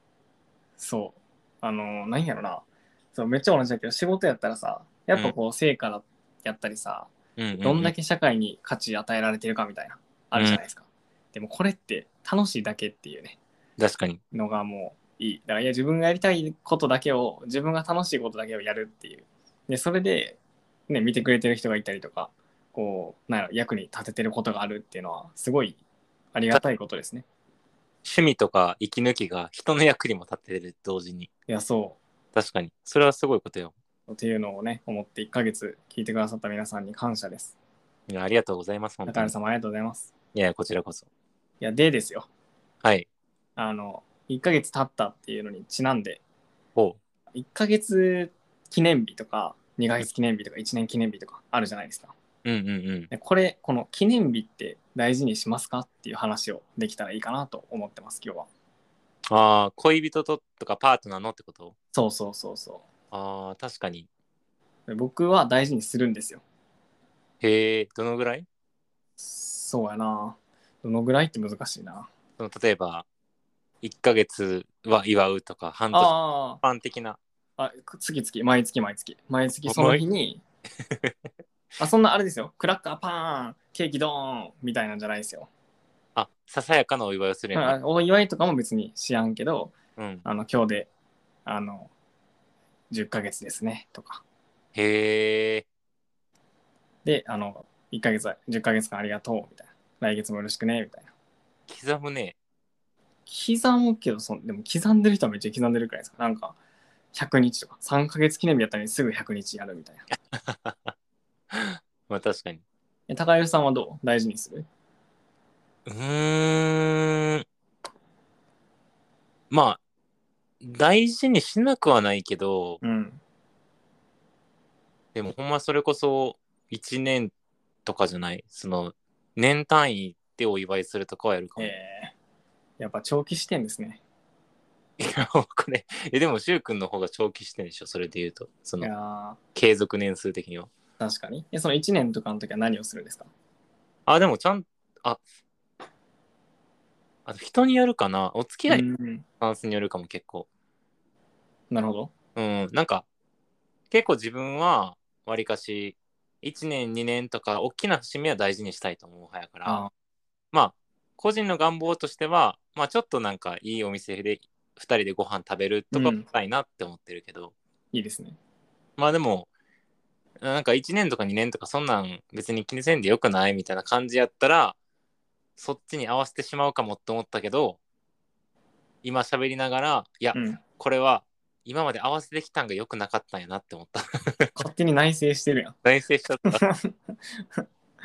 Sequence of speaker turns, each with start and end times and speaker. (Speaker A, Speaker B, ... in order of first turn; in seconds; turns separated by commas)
Speaker A: 0.8-7.1, Speaker B: 7.4-7.9, Speaker A: 7.6-13.4, Speaker B: 10.4-10.6, Speaker B: 13.8-14.2, Speaker A: 14.3-25.8, Speaker A: 26.3-27.2, Speaker B: 28.0-31.3, Speaker A: 31.5-32.0, Speaker B: 32.3-33.7, Speaker A: 34.1-37.5, Speaker B: 38.1-39.3, Speaker A: 39.1-40.1, Speaker B: 40.3-41.1, Speaker A: 41.6-42.3, Speaker A: 43.6-46.2, Speaker A: 47.3-52.1, Speaker B: 52.5-53.1, Speaker A: 53.1-58.5, Speaker B: 59.3-61.8, Speaker A: 61.9-62.9, Speaker B: 63.1-64.1, Speaker A: 64.9-66.4, Speaker B: 67.4-68.5, Speaker A: 69.2-72.1, Speaker B: 72.4-73.1, Speaker B: 73.8-77.2, Speaker A: 75.9-76.6, Speaker A: 77.6-80.4, Speaker B: 79.7-80.0, Speaker A: 81.8-85.5, Speaker B: 86.2-87.8, Speaker A: 87.5-90.9, Speaker B: 90.0-90.2, Speaker A: 91.5-91.9, Speaker A: 92.9-94.2, Speaker B: 94.8-95.7, Speaker A: 97.0-101.1, Speaker B: 101.7-102.4, Speaker A: 103.3-106.6, Speaker A: 107.1-110.1, Speaker B: 110.3-110.9, Speaker B: 111.5-112.6, Speaker A: 113.1-114.7, Speaker B: 115.9-117.4, Speaker B: 119.5-119.8, Speaker B: 120.6-122.8, Speaker A: 122.8-123.2, Speaker B: 125.2-127.3, Speaker B: 127.9-131.7, Speaker A: 131.6-132.1, Speaker A: 132.8-134.0, Speaker B: 135.0-138.9, Speaker A: 138.8-139.4, Speaker B: 139.6-140.7, Speaker A: 141.0-143.3, Speaker B: 144.1-145.2, Speaker B: 147.3-148.9, Speaker A: 148.7-149.2, Speaker B: 149.4-150.5, Speaker A: 151.7-152.1, Speaker B: 152.3-153.1, Speaker B: 153.9-159.8, Speaker B: 160.5-167.5, Speaker A: 165.9-166.3, Speaker A: 167.9-168.4, Speaker B: 169.0-169.5, Speaker B: 170.4-174.8, Speaker B: 175.6-177.8, Speaker B: 179.0-184.5, Speaker A: 180.3-180.6, Speaker A: 184.6-185.8, Speaker B: 185.8-186.6, Speaker A: 186.5-187.7